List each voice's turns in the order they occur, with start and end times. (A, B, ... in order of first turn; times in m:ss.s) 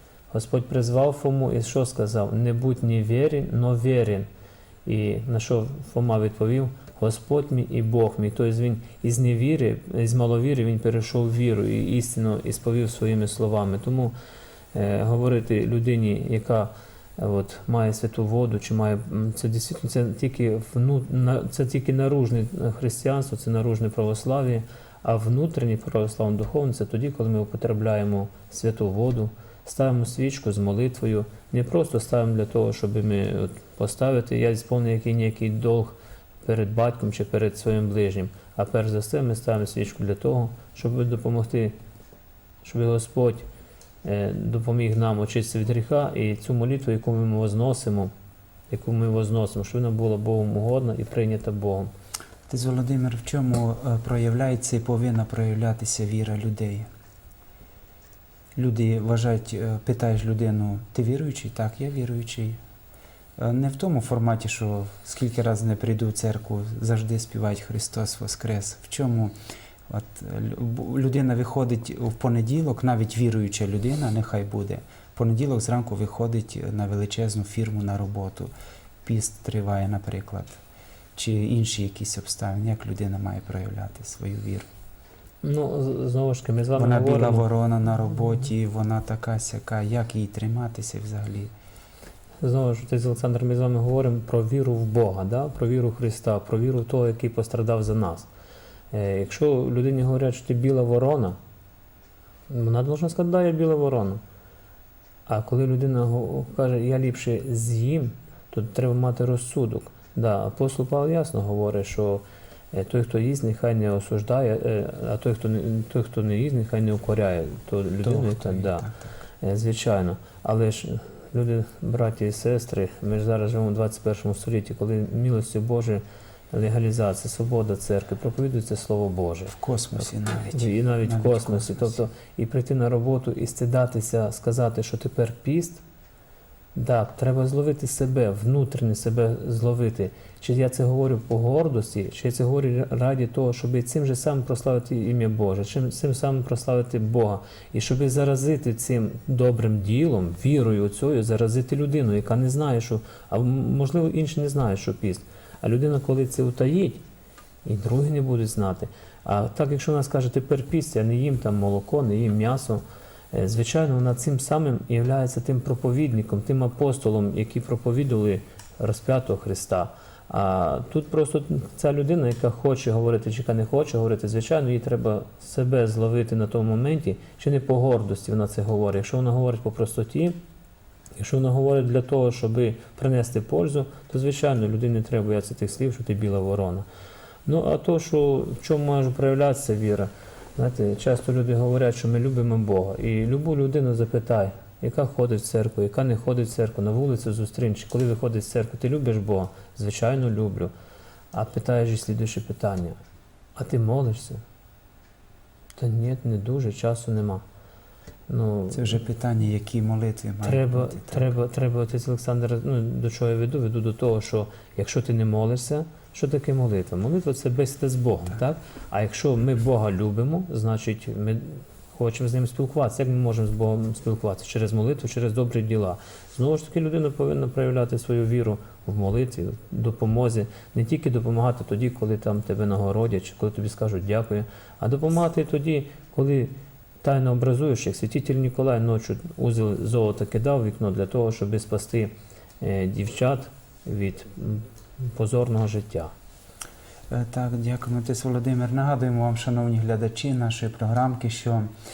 0:00.3-0:04.3 A
0:04.8-0:14.1 A
0:14.7-0:41.8 A
0:42.6-0:43.4 A
0:44.0-0:48.1 A
0:48.7-0:51.9 A
0:52.5-0:56.9 B
0:58.6-1:02.6 B
1:03.4-1:09.3 B
1:09.9-1:18.5 B
1:19.0-1:20.6 B
1:21.2-1:24.6 B
1:25.4-1:27.4 A
1:26.8-1:31.5 B
1:32.4-1:38.3 A
1:38.9-1:41.4 A
1:42.5-1:44.2 A
1:45.3-1:58.9 A
1:58.0-1:59.1 B
1:59.4-2:09.6 A
2:09.5-2:12.0 B
2:10.4-2:15.8 A
2:16.7-2:37.0 A
2:37.6-3:00.4 A
3:01.2-3:06.8 A
3:07.4-3:20.7 A
3:21.3-3:23.0 A
3:23.6-3:24.4 A
3:25.8-3:27.4 A
3:28.3-3:29.0 A
3:28.7-3:31.4 B
3:30.4-4:06.1 A
4:07.1-4:11.7 B